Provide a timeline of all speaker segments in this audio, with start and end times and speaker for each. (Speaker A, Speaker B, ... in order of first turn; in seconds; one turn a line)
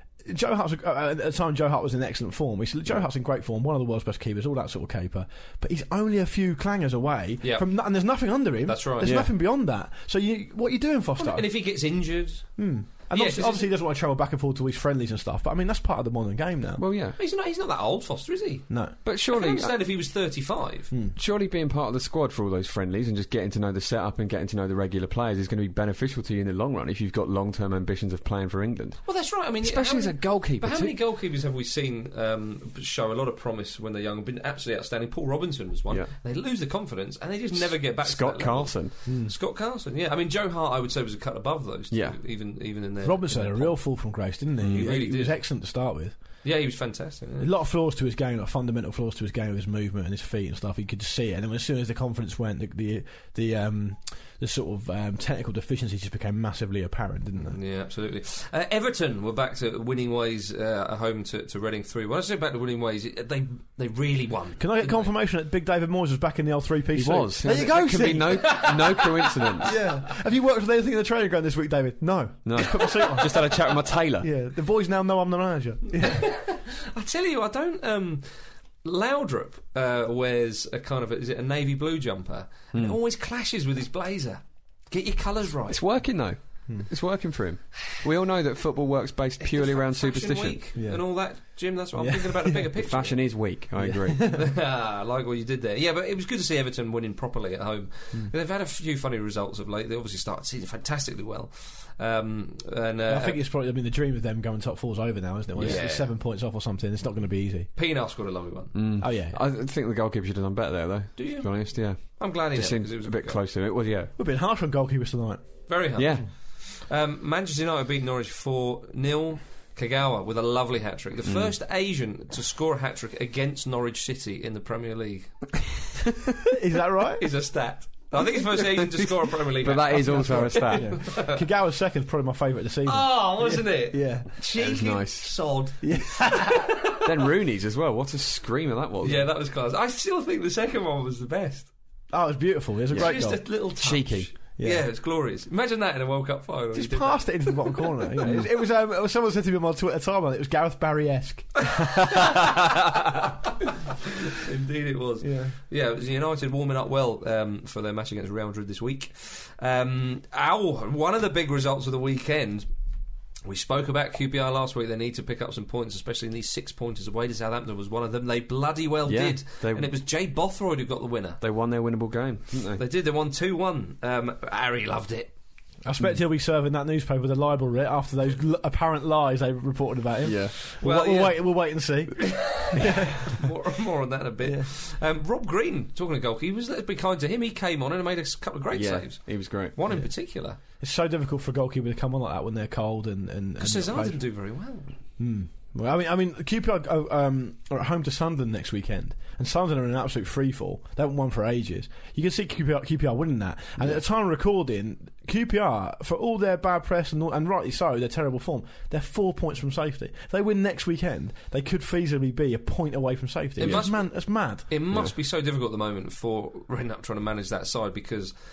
Speaker A: 0.2-11.5
Speaker B: 8.6-9.2
Speaker C: 9.0-9.3
Speaker B: 11.2-12.5
Speaker A: 12.6-16.8
Speaker B: 13.1-13.7
Speaker C: 16.8-17.1
Speaker B: 17.2-18.6
Speaker A: 18.7-18.9
Speaker C: 19.0-19.7
Speaker B: 19.3-20.9
Speaker A: 20.9-21.1
Speaker C: 21.1-29.0
Speaker B: 29.0-43.8
Speaker C: 29.6-30.9
Speaker C: 37.6-38.9
Speaker A: 39.0-39.3
Speaker C: 41.9-42.1
Speaker A: 43.0-46.1
Speaker C: 44.6-44.9
Speaker B: 44.6-45.4
Speaker B: 46.4-47.5
Speaker A: 47.4-57.6
Speaker B: 57.4-65.1
Speaker A: 64.6-69.0
Speaker C: 66.9-69.7
Speaker B: 67.5-70.0
Speaker A: 69.6-73.6
Speaker C: 72.4-74.3
Speaker A: 74.2-76.3
Speaker B: 76.0-78.2
Speaker B: 78.8-85.9
Speaker C: 85.7-90.6
Speaker B: 89.4-93.3
Speaker A: 90.7-91.0
Speaker A: 92.0-92.7
Speaker C: 92.8-94.3
Speaker A: 93.8-94.5
Speaker B: 94.2-103.4
Speaker A: 103.0-107.7
Speaker C: 105.5-105.8
Speaker B: 105.6-106.1
Speaker B: 107.8-108.8
Speaker C: 108.7-114.1
Speaker A: 109.0-109.4
Speaker B: 111.2-113.4
Speaker A: 114.2-115.7
Speaker B: 115.7-125.6
Speaker C: 116.0-116.2
Speaker A: 126.5-127.3
Speaker B: 127.2-131.4
Speaker C: 129.6-131.0
Speaker A: 129.9-134.3
Speaker B: 132.8-137.0
Speaker C: 134.6-135.3
Speaker A: 135.8-136.6
Speaker C: 137.0-139.2
Speaker B: 139.0-141.7
Speaker A: 142.1-143.6
Speaker C: 142.9-144.3
Speaker B: 142.9-148.5
Speaker A: 144.6-144.8
Speaker A: 146.7-152.4
Speaker B: 151.7-153.2
Speaker B: 154.2-162.7
Speaker A: 155.2-155.5
Speaker B: 163.4-171.4
Speaker C: 169.1-169.9
Speaker C: 171.4-172.8
Speaker B: 172.8-175.3
Speaker A: 175.8-183.4
Speaker C: 180.2-180.5
Speaker B: 180.8-190.6
Speaker C: 188.7-189.8
Speaker A: 190.8-194.2
Speaker B: 193.6-194.9
Speaker A: 195.2-214.7
Speaker B: 213.6-214.2
Speaker B: 214.7-218.3